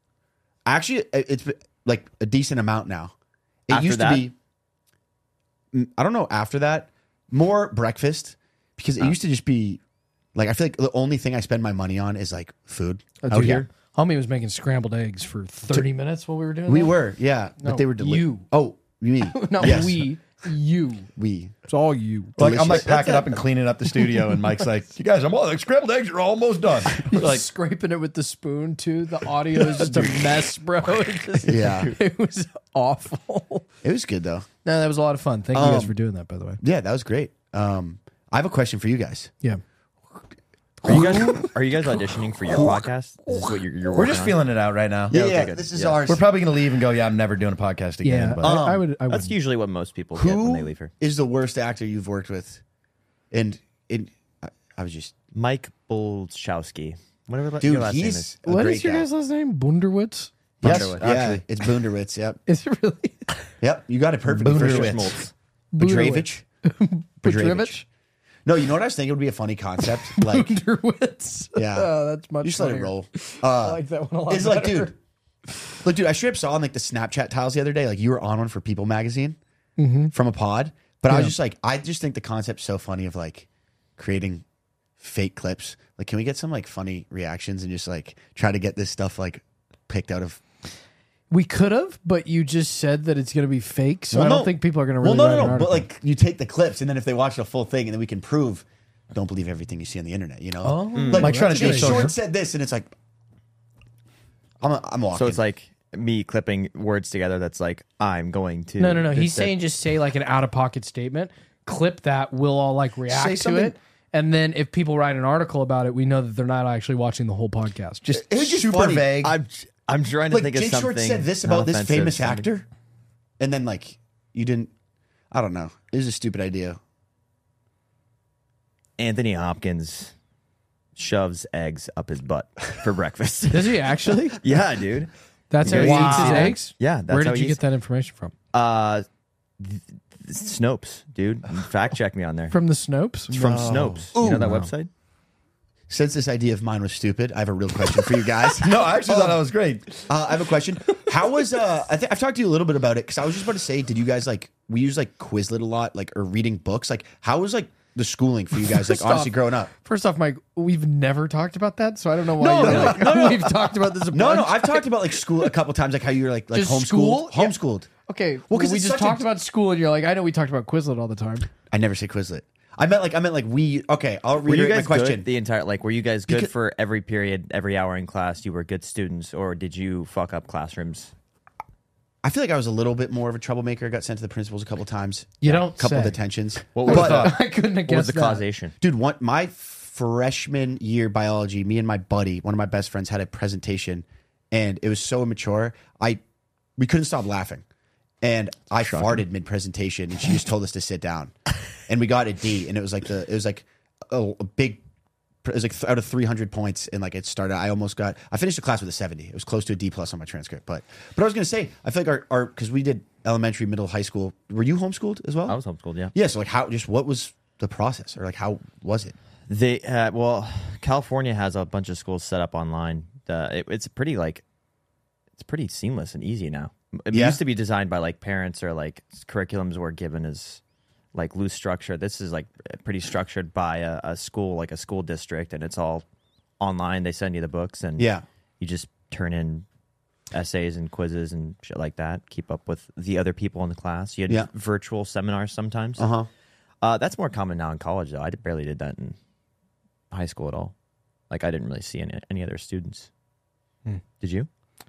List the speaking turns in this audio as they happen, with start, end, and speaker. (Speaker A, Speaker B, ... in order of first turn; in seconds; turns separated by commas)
Speaker A: 0.7-3.1, Speaker A: 3.7-4.3, Speaker B: 3.7-4.3, Speaker A: 5.7-9.8, Speaker A: 10.3-13.7, Speaker C: 13.2-17.0, Speaker D: 13.3-13.6, Speaker A: 16.7-20.1, Speaker C: 17.6-18.4, Speaker C: 19.3-21.1, Speaker A: 21.1-21.6, Speaker C: 21.7-22.4, Speaker A: 22.4-23.4, Speaker D: 22.4-27.5, Speaker C: 23.9-24.7, Speaker C: 26.9-33.7, Speaker D: 29.5-30.3, Speaker A: 31.4-31.9, Speaker A: 33.8-34.5, Speaker C: 34.6-36.6, Speaker A: 35.5-35.9, Speaker A: 36.6-39.3, Speaker C: 40.8-43.5, Speaker B: 40.8-44.4, Speaker D: 43.9-45.1, Speaker B: 45.1-46.0, Speaker A: 45.1-46.2, Speaker D: 46.1-48.5, Speaker C: 48.0-49.4, Speaker A: 48.4-48.8, Speaker B: 49.1-50.9, Speaker A: 50.1-52.6, Speaker A: 53.3-55.1, Speaker B: 55.3-58.3, Speaker A: 57.6-59.1, Speaker C: 58.5-60.3, Speaker A: 60.6-62.4, Speaker B: 60.6-61.1, Speaker D: 60.6-61.4, Speaker C: 62.5-63.5, Speaker A: 63.6-65.1, Speaker D: 64.4-65.2, Speaker B: 64.4-65.3, Speaker C: 65.7-67.8, Speaker A: 65.8-66.5, Speaker A: 67.2-67.8, Speaker A: 68.5-70.5, Speaker C: 69.8-74.9, Speaker A: 71.5-74.9, Speaker A: 75.8-79.4, Speaker C: 79.8-80.1, Speaker A: 80.1-84.4, Speaker C: 81.1-81.3, Speaker A: 85.0-90.4, Speaker C: 91.3-95.9, Speaker A: 94.1-102.9, Speaker C: 100.6-102.1, Speaker B: 100.9-101.3, Speaker D: 101.2-102.1, Speaker A: 104.6-105.4, Speaker B: 105.1-109.5, Speaker C: 108.8-118.1, Speaker A: 113.1-113.7, Speaker D: 113.1-113.6, Speaker D: 118.0-119.3, Speaker A: 118.3-119.1, Speaker B: 119.2-122.5, Speaker A: 120.3-122.7, Speaker A: 123.4-124.7, Speaker A: 125.3-126.8, Speaker B: 129.0-130.1, Speaker B: 130.9-137.6, Speaker C: 133.5-134.4, Speaker C: 135.5-138.3, Speaker D: 135.6-136.6, Speaker B: 138.5-139.0, Speaker B: 139.6-142.5, Speaker C: 142.5-143.4, Speaker B: 143.3-144.9, Speaker D: 143.3-144.1, Speaker A: 144.1-144.7, Speaker A: 145.9-149.4, Speaker D: 148.5-150.0, Speaker A: 150.0-159.7, Speaker C: 158.6-165.2, Speaker A: 162.4-163.6, Speaker B: 162.6-163.2, Speaker A: 164.1-167.9, Speaker C: 166.5-171.5, Speaker A: 168.5-169.3, Speaker A: 171.7-175.3, Speaker B: 174.4-181.1, Speaker A: 182.2-187.3, Speaker C: 185.4-186.2, Speaker D: 186.7-187.3, Speaker C: 186.8-188.4, Speaker B: 186.9-187.3, Speaker B: 187.8-188.7, Speaker A: 188.8-196.2, Speaker A: 196.8-197.6, Speaker A: 198.2-201.3, Speaker D: 198.9-199.2, Speaker A: 201.8-204.8, Speaker A: 205.4-215.6, Speaker B: 215.5-216.1, Speaker A: 216.1-219.2, Speaker B: 219.5-224.4, Speaker B: 225.4-230.6, Speaker A: 227.1-227.4, Speaker B: 231.1-236.0, Speaker B: 236.6-239.7, Speaker A: 238.0-238.2, Speaker B: 240.3-246.1, Speaker A: 246.0-246.3, Speaker B: 246.8-249.2, Speaker B: 250.1-250.7, Speaker B: 251.3-253.1, Speaker B: 254.2-254.5